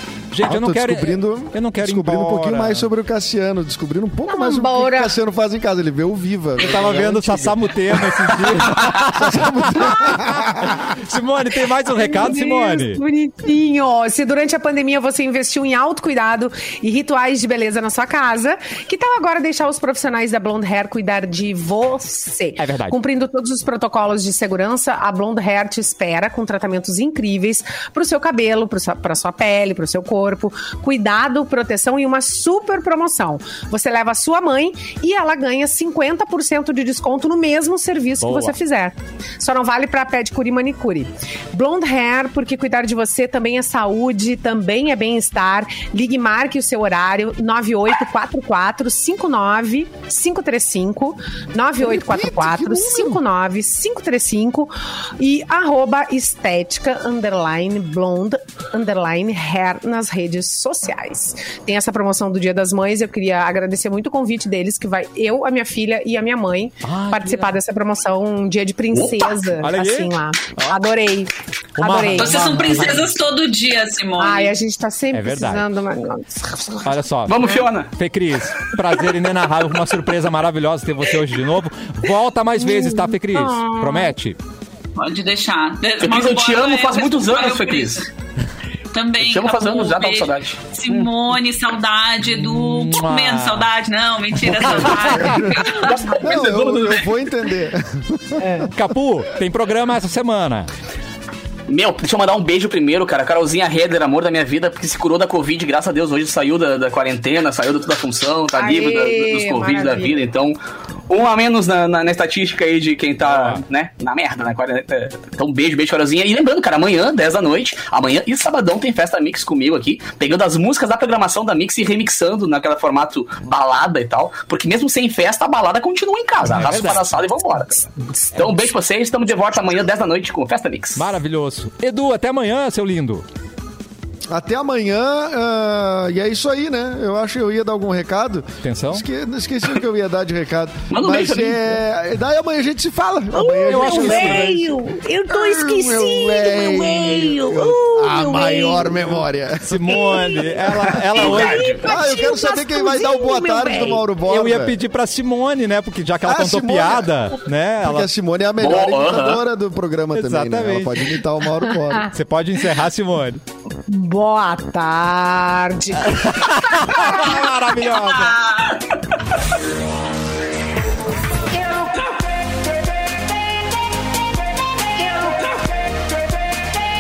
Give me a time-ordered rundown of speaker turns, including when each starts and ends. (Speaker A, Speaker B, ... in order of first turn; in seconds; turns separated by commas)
Speaker A: 0.3-2.9, Speaker B: 0.4-7.6, Speaker C: 4.3-5.1, Speaker A: 6.6-13.0, Speaker D: 6.6-7.1, Speaker D: 7.9-9.0, Speaker B: 8.9-10.8, Speaker C: 11.8-73.1, Speaker A: 22.6-23.0, Speaker A: 38.2-38.6, Speaker B: 51.8-53.2, Speaker A: 66.8-67.6, Speaker D: 68.9-69.3, Speaker A: 69.6-70.8, Speaker A: 71.8-73.1, Speaker E: 72.2-74.5, Speaker C: 74.2-77.7, Speaker A: 75.1-75.7, Speaker A: 76.9-84.4, Speaker D: 77.3-77.9, Speaker C: 82.6-84.1, Speaker E: 85.0-88.1, Speaker D: 86.0-88.0, Speaker E: 88.9-96.3, Speaker D: 89.2-91.1, Speaker A: 92.2-93.7, Speaker A: 94.4-95.4, Speaker B: 95.0-98.7, Speaker D: 95.1-97.1, Speaker C: 98.4-98.7, Speaker A: 98.7-100.7, Speaker D: 101.7-110.6, Speaker C: 108.6-110.2, Speaker D: 111.1-131.1, Speaker A: 113.2-113.6, Speaker A: 126.4-127.1, Speaker A: 131.0-133.2, Speaker B: 134.3-144.7, Speaker A: 138.6-139.1, Speaker D: 140.9-141.8, Speaker C: 143.3-149.1, Speaker A: 143.7-144.5, Speaker B: 145.3-150.9, Speaker A: 149.6-151.7, Speaker C: 149.9-154.1, Speaker D: 151.1-151.9, Speaker B: 151.8-154.8, Speaker A: 154.3-158.1, Speaker B: 156.2-157.3, Speaker B: 157.8-162.1, Speaker D: 158.6-159.4, Speaker A: 160.1-161.1, Speaker A: 162.1-163.4, Speaker C: 163.9-167.3, Speaker A: 166.1-168.4, Speaker E: 167.8-168.9, Speaker C: 171.5-172.1, Speaker C: 175.0-175.5